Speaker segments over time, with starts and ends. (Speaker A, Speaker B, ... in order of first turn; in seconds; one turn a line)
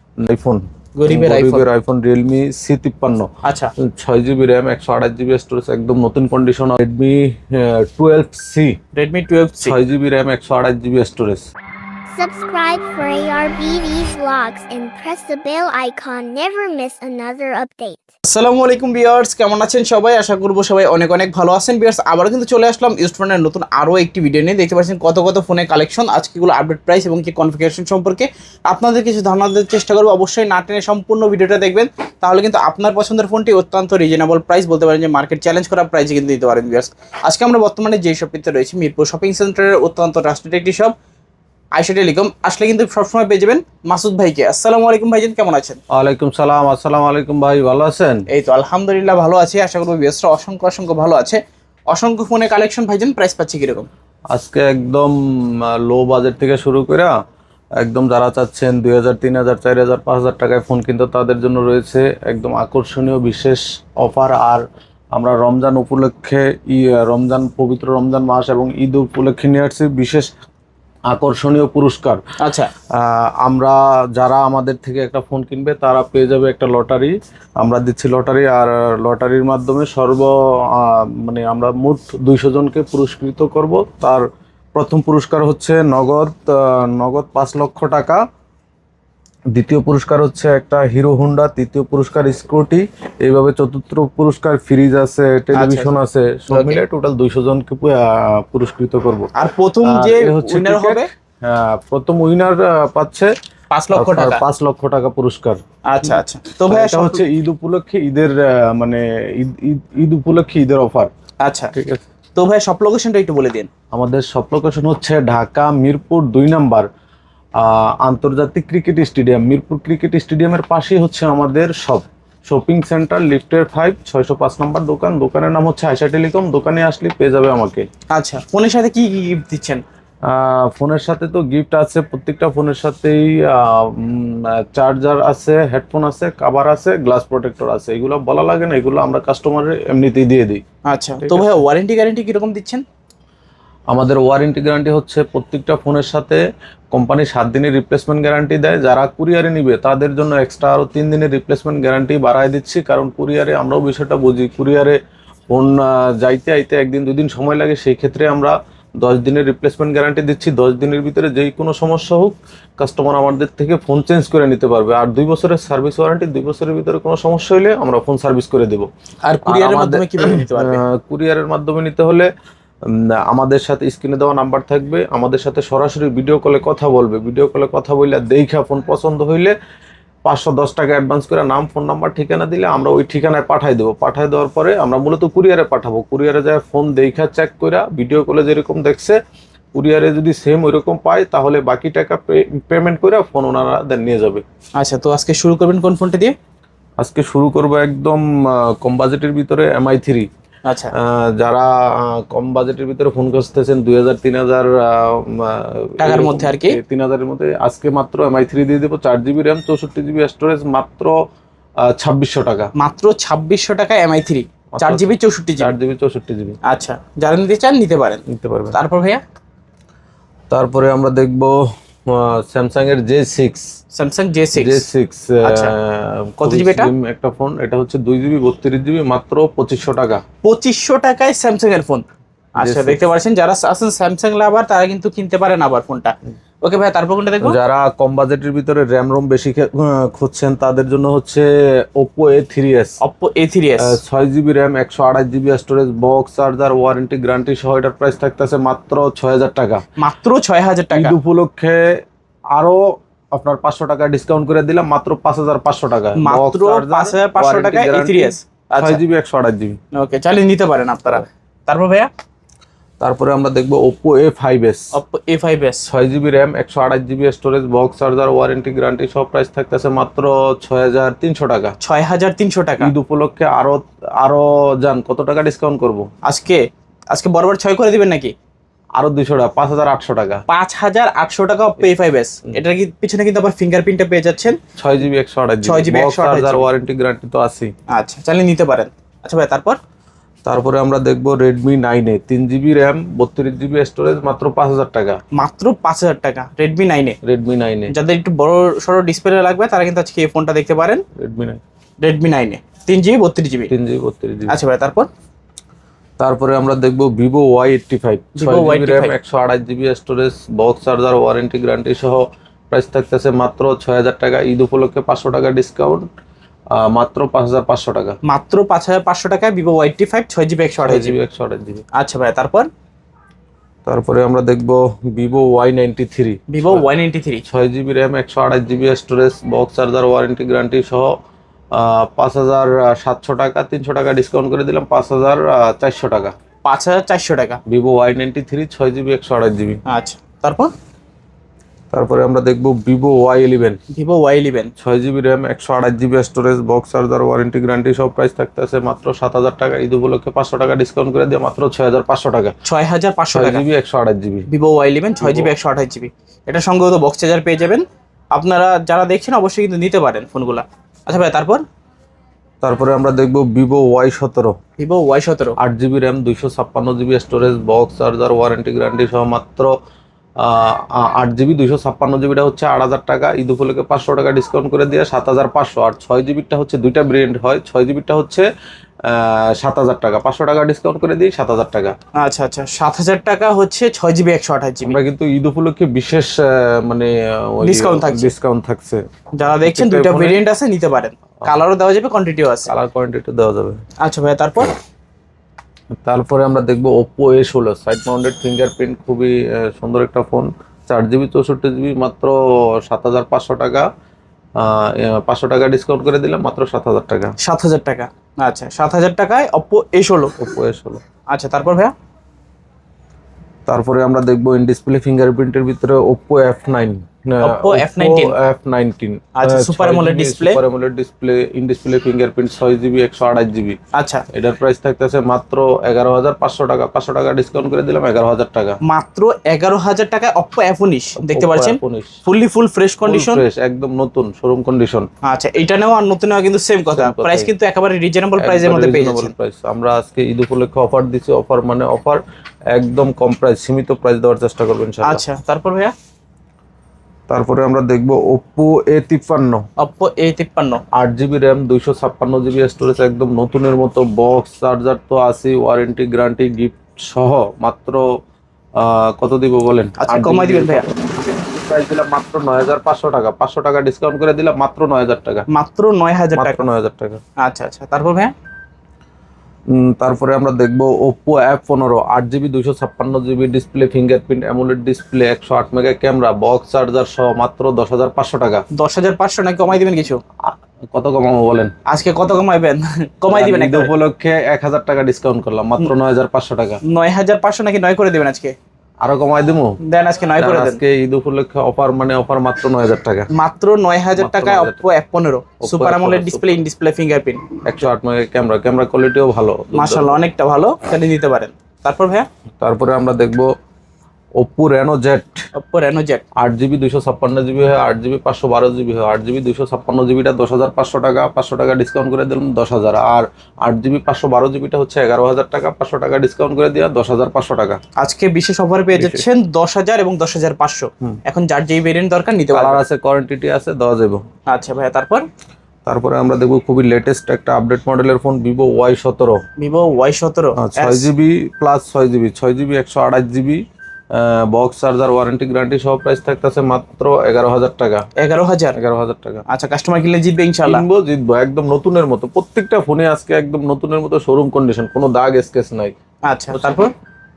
Speaker A: 0.2-8.8
Speaker B: 1.0-1.7
Speaker B: 3.4-3.7
Speaker B: 8.9-9.8
Speaker A: 9.6-11.5
Speaker C: 12.1-18.0
Speaker B: 18.3-41.0
Speaker B: 41.8-45.8
Speaker A: 45.9-48.2
Speaker B: 48.3-53.9
Speaker A: 54.3-57.1
Speaker A: 57.8-70.3
Speaker A: 71.1-72.2
Speaker B: 72.4-72.7
Speaker A: 72.9-88.2
Speaker A: 89.5-99.3
Speaker B: 95.5-95.9
Speaker B: 96.5-96.8
Speaker B: 99.3-101.1
Speaker A: 99.8-103.3
Speaker B: 103.7-104.4
Speaker A: 103.9-111.1
Speaker B: 105.9-107.2
Speaker B: 111.4-111.7
Speaker A: 111.7-112.0
Speaker B: 112.4-113.7
Speaker A: 113.9-116.9
Speaker A: 117.6-127.9
Speaker B: 128.1-129.8
Speaker A: 130.3-140.6
Speaker B: 140.9-142.8
Speaker A: 141.2-141.7
Speaker A: 143.9-146.4
Speaker A: 146.9-155.0
Speaker A: 155.5-168.9
Speaker B: 169.2-170.8
Speaker A: 169.4-172.3
Speaker A: 172.9-179.5
Speaker A: 180.2-189.2
Speaker A: 189.7-194.4
Speaker B: 194.8-196.3
Speaker A: 197.0-200.3
Speaker B: 200.7-200.9
Speaker A: 200.9-211.2
Speaker B: 206.0-206.8
Speaker A: 211.8-212.7
Speaker B: 212.8-215.8
Speaker A: 214.8-216.6
Speaker B: 216.7-219.2
Speaker A: 218.3-218.8
Speaker A: 220.5-221.6
Speaker A: 222.1-223.7
Speaker B: 223.9-224.9
Speaker A: 224.5-230.2
Speaker B: 225.4-225.7
Speaker B: 226.4-226.9
Speaker B: 230.4-232.1
Speaker A: 232.6-233.1
Speaker B: 232.6-237.6
Speaker A: 237.4-243.0
Speaker B: 243.0-244.0
Speaker A: 243.8-249.8
Speaker B: 250.0-251.2
Speaker A: 250.9-252.0
Speaker A: 252.6-259.8
Speaker B: 256.2-259.0
Speaker B: 259.9-262.1
Speaker A: 263.0-264.9
Speaker B: 264.9-265.9
Speaker A: 265.9-271.8
Speaker B: 271.8-272.9
Speaker A: 272.8-276.1
Speaker B: 276.2-278.3
Speaker A: 279.0-280.4
Speaker B: 280.5-284.6
Speaker A: 284.8-287.7
Speaker B: 285.6-286.7
Speaker B: 287.9-289.8
Speaker A: 290.4-295.2
Speaker B: 295.3-297.2
Speaker A: 297.2-297.9
Speaker B: 297.9-301.0
Speaker A: 301.2-301.6
Speaker B: 302.0-303.7
Speaker A: 303.7-304.6
Speaker B: 304.5-305.1
Speaker A: 306.2-316.1
Speaker B: 308.4-309.1
Speaker A: 316.8-318.2
Speaker B: 318.2-321.2
Speaker A: 320.8-321.8
Speaker B: 321.9-322.7
Speaker A: 323.9-326.9
Speaker B: 326.5-327.4
Speaker A: 327.5-331.1
Speaker A: 331.7-336.4
Speaker B: 336.6-337.6
Speaker A: 337.7-339.8
Speaker B: 339.9-340.7
Speaker A: 341.9-343.8
Speaker B: 343.9-344.7
Speaker A: 344.8-352.6
Speaker B: 352.6-353.7
Speaker A: 353.3-354.5
Speaker B: 354.5-361.6
Speaker A: 355.2-355.5
Speaker A: 362.6-364.6
Speaker B: 364.8-365.6
Speaker A: 365.6-369.7
Speaker A: 370.4-378.5
Speaker A: 379.1-381.9
Speaker B: 382.1-385.0
Speaker A: 384.8-389.1
Speaker B: 387.6-388.3
Speaker B: 389.4-392.7
Speaker A: 389.6-390.4
Speaker A: 392.7-393.8
Speaker B: 394.0-394.8
Speaker A: 396.0-403.9
Speaker A: 404.6-407.3
Speaker B: 407.4-410.3
Speaker A: 410.4-411.0
Speaker B: 411.3-411.9
Speaker A: 413.7-423.8
Speaker B: 417.4-418.4
Speaker B: 419.4-420.6
Speaker B: 423.9-424.2
Speaker A: 424.3-428.8
Speaker B: 428.9-433.4
Speaker A: 431.2-432.2
Speaker A: 433.0-435.1
Speaker B: 435.2-439.3
Speaker A: 436.9-437.5
Speaker A: 438.4-442.2
Speaker A: 442.7-445.2
Speaker B: 445.0-445.9
Speaker A: 447.3-449.6
Speaker B: 449.8-450.8
Speaker A: 450.9-458.1
Speaker A: 458.8-465.5
Speaker B: 460.0-460.9
Speaker B: 465.5-466.7
Speaker A: 466.3-467.2
Speaker B: 467.4-468.3
Speaker A: 469.7-478.6
Speaker B: 478.7-480.2
Speaker A: 480.4-481.7
Speaker B: 481.9-483.9
Speaker A: 483.3-486.8
Speaker B: 486.9-488.6
Speaker A: 489.0-489.8
Speaker B: 489.8-490.8
Speaker A: 490.4-493.3
Speaker B: 493.4-497.6
Speaker A: 494.1-494.9
Speaker A: 495.6-496.6
Speaker A: 497.6-500.2
Speaker B: 499.7-502.3
Speaker A: 502.6-503.5
Speaker A: 504.4-505.4
Speaker B: 505.6-506.2
Speaker A: 506.4-517.8
Speaker B: 518.0-522.8
Speaker A: 519.0-519.3
Speaker A: 522.5-524.2
Speaker B: 524.5-525.2
Speaker A: 525.9-529.4
Speaker B: 529.6-531.1
Speaker A: 530.6-533.6
Speaker A: 534.1-538.1
Speaker B: 538.2-538.8
Speaker A: 538.8-539.4
Speaker B: 539.5-540.9
Speaker A: 540.6-545.9
Speaker B: 546.2-546.9
Speaker A: 546.5-546.9